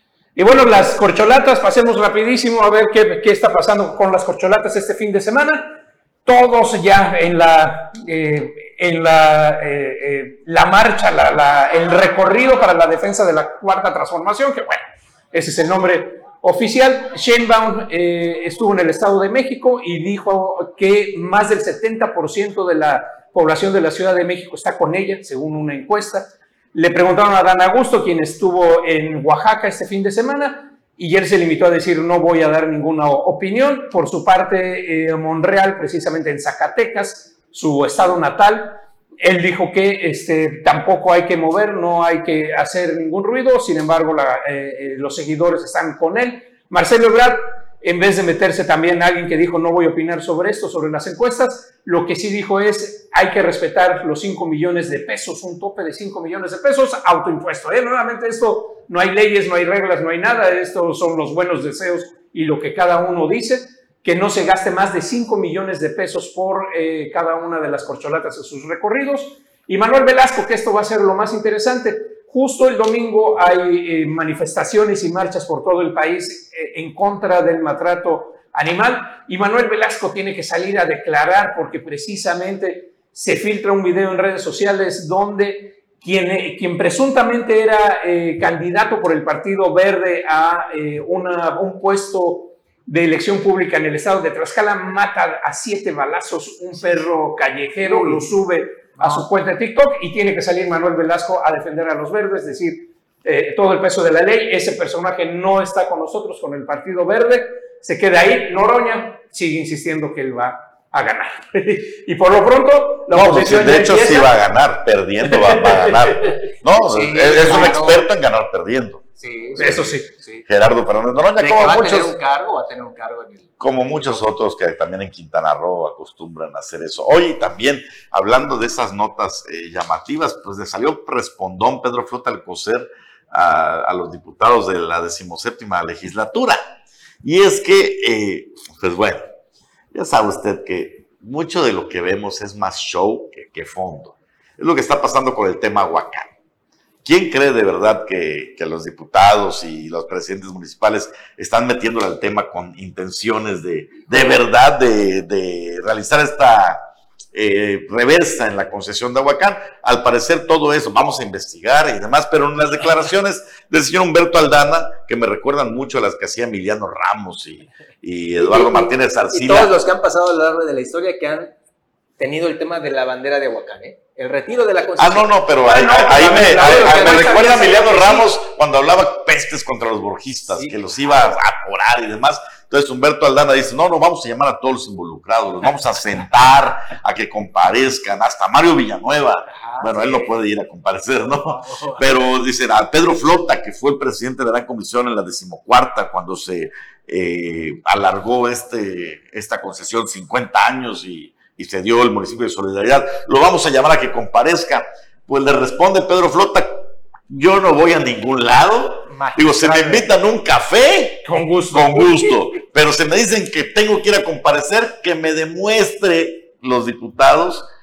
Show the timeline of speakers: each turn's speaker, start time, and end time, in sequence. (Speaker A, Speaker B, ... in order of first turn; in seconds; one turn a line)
Speaker A: 0.4-114.4
Speaker B: 97.8-98.3
Speaker B: 99.0-99.3
Speaker C: 113.1-119.1
Speaker A: 115.2-116.4
Speaker B: 116.9-118.0
Speaker B: 119.2-120.5
Speaker A: 119.6-120.1
Speaker C: 119.6-119.9
Speaker C: 120.5-122.2
Speaker B: 121.4-124.2
Speaker C: 123.6-136.6
Speaker C: 137.2-139.2
Speaker C: 139.9-146.3
Speaker C: 147.0-156.8
Speaker C: 157.3-169.8
Speaker B: 168.4-171.5
Speaker B: 172.2-175.4
Speaker C: 175.0-217.7
Speaker A: 175.7-178.3
Speaker B: 176.3-177.7
Speaker B: 180.5-181.4
Speaker B: 189.5-190.4
Speaker B: 191.2-192.2
Speaker B: 209.1-210.1
Speaker A: 211.2-212.6